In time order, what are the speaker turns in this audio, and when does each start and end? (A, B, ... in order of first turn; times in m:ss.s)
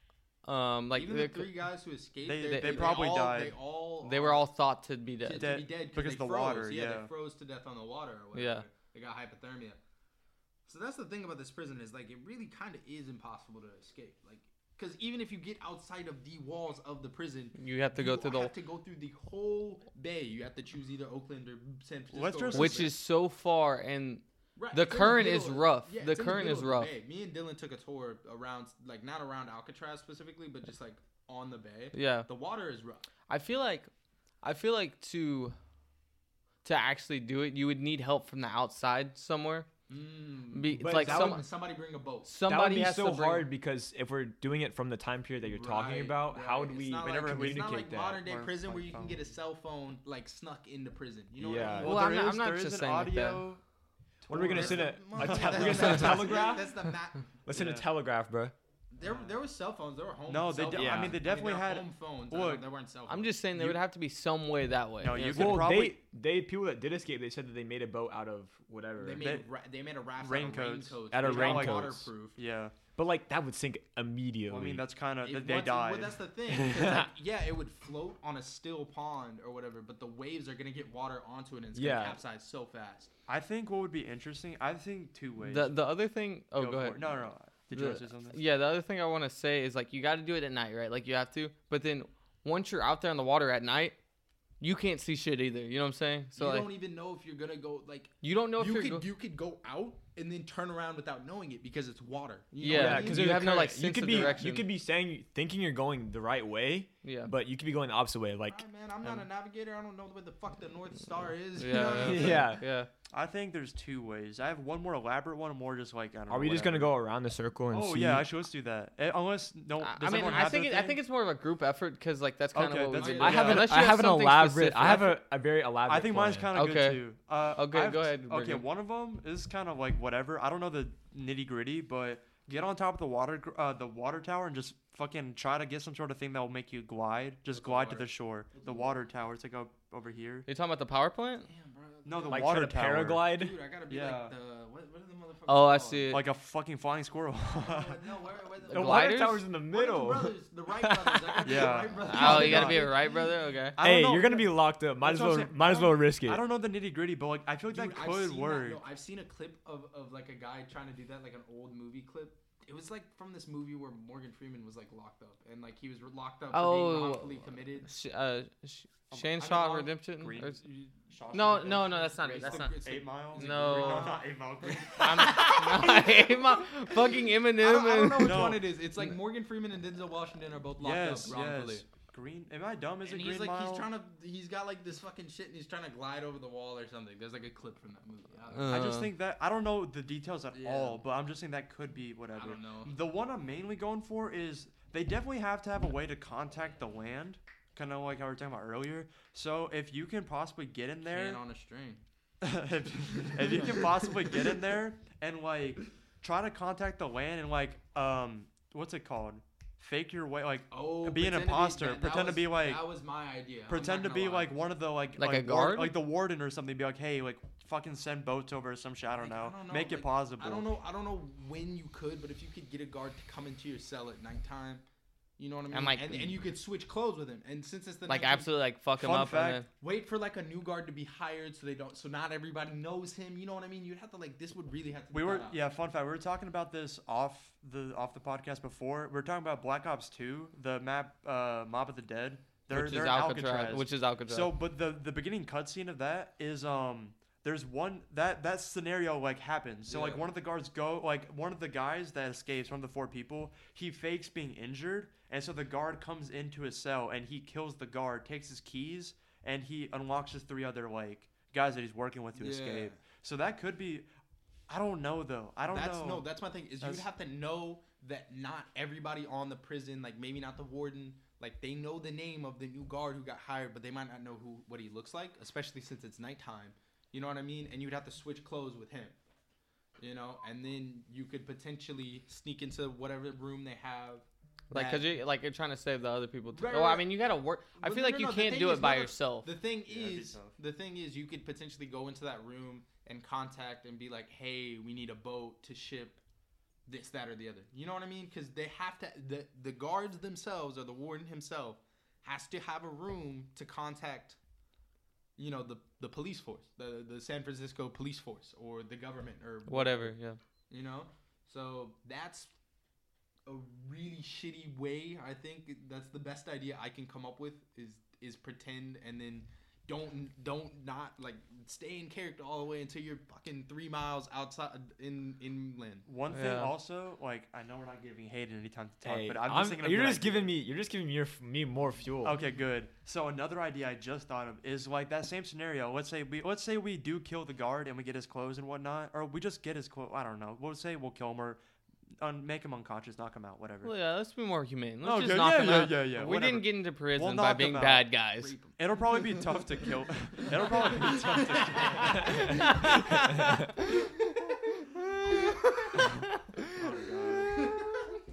0:00.4-0:01.5 A
0:00.9-0:04.5 B
0:02.2-0:03.6 C
0:02.5-0:02.9 A
0:04.0-0:05.5 A
0:05.2-0:09.8 B
0:05.4-0:07.1 C
0:08.3-0:08.6 A
0:10.7-0:23.0 B
0:17.6-0:18.5 A
0:22.1-0:22.9 C
0:22.5-0:26.9 A
0:24.6-0:33.0 B
0:31.9-0:32.3 A
0:33.3-0:33.9 A
0:34.4-0:35.6 A
0:36.6-0:39.7 A
0:39.9-0:42.4 B
0:40.5-0:41.4 A
0:40.8-0:41.4 D
0:42.2-0:43.5 A
0:42.5-0:48.2 D
0:45.4-0:52.0 B
0:47.0-0:49.3 C
0:51.4-0:52.0 D
0:51.6-0:53.6 C
0:51.8-0:53.4 A
0:54.2-0:56.4 C
0:54.3-0:56.9 D
0:54.3-0:57.3 B
0:57.5-0:58.5 D
0:57.5-0:57.9 C
0:58.9-1:03.4 B
0:59.0-0:59.3 C
1:00.3-1:02.6 C
1:00.7-1:01.2 D
1:03.1-1:05.7 A
1:05.0-1:06.0 C
1:05.3-1:09.2 D
1:09.0-1:12.4 B
1:09.2-1:09.5 C
1:10.2-1:12.8 C
1:11.1-1:12.1 D
1:13.0-1:14.8 D
1:14.5-1:16.2 C
1:15.2-1:23.1 B
1:16.6-1:17.1 D
1:21.7-1:22.2 D
1:23.3-1:25.8 C
1:25.4-1:27.0 A
1:26.6-1:28.4 C
1:27.7-1:34.0 A
1:34.6-1:36.7 A
1:36.4-1:44.4 B
1:38.2-1:39.1 A
1:42.6-1:44.7 A
1:42.7-1:48.6 D
1:47.0-1:47.3 A
1:48.5-1:52.6 B
1:51.6-1:52.9 A
1:51.9-1:52.6 D
1:53.1-1:57.0 C
1:56.3-1:58.3 D
1:57.7-2:01.0 C
1:59.8-2:05.2 A
2:02.5-2:03.7 C
2:02.9-2:03.7 B
2:03.2-2:06.5 D
2:05.9-2:20.5 C
2:06.6-2:08.6 A
2:17.5-2:19.0 B
2:20.5-2:21.5 A
2:21.5-2:26.2 B
2:22.1-2:23.2 C
2:22.3-2:23.6 D
2:23.9-2:24.3 C
2:25.5-2:26.2 A
2:26.1-2:28.0 C
2:27.5-2:33.4 B
2:28.6-2:29.4 A
2:28.7-2:31.7 D
2:31.4-2:33.0 C
2:32.0-2:33.8 A
2:33.8-2:38.8 C
2:33.8-2:36.4 D
2:37.7-2:47.9 B
2:46.5-2:50.6 A
2:49.4-2:49.9 B
2:50.2-2:55.5 C
2:50.6-2:56.6 B
2:51.3-2:54.1 A
2:55.0-2:58.5 A
2:57.6-3:01.8 B
2:58.2-2:58.8 C
3:00.8-3:03.9 C
3:03.0-3:08.9 B
3:08.5-3:09.1 A
3:08.7-3:21.4 C
3:10.5-3:11.0 B
3:12.4-3:12.9 B
3:21.1-3:22.0 B
3:22.4-3:32.8 C
3:23.2-3:24.4 B
3:30.7-3:34.6 B
3:33.7-3:40.7 C
3:35.2-3:36.0 A
3:39.2-3:44.8 B
3:45.4-3:48.5 B
3:45.7-3:46.4 A
3:48.1-3:49.7 A
3:49.0-3:49.6 C
3:49.7-3:55.6 B
3:55.1-4:24.0 C
4:02.7-4:04.5 A
4:09.9-4:10.2 B
4:22.4-4:23.0 B
4:24.7-4:26.3 C
4:25.7-4:39.2 B
4:40.0-4:45.1 B
4:44.7-4:49.5 A
4:46.5-4:47.1 B
4:47.8-4:56.2 B
4:49.9-4:50.6 C
4:56.9-5:04.4 B
5:05.4-5:10.2 B
5:09.7-5:10.4 A
5:10.7-5:12.5 B
5:13.5-5:26.1 B
5:26.1-5:30.5 C
5:26.3-5:26.7 A
5:29.0-5:32.4 D
5:32.2-5:41.6 C
5:42.2-5:43.9 C
5:43.8-5:48.6 A
5:45.0-5:48.1 C
5:48.4-5:48.8 B
5:48.8-5:53.0 C
5:51.0-5:52.8 B
5:51.9-5:56.6 A
5:56.7-5:57.7 C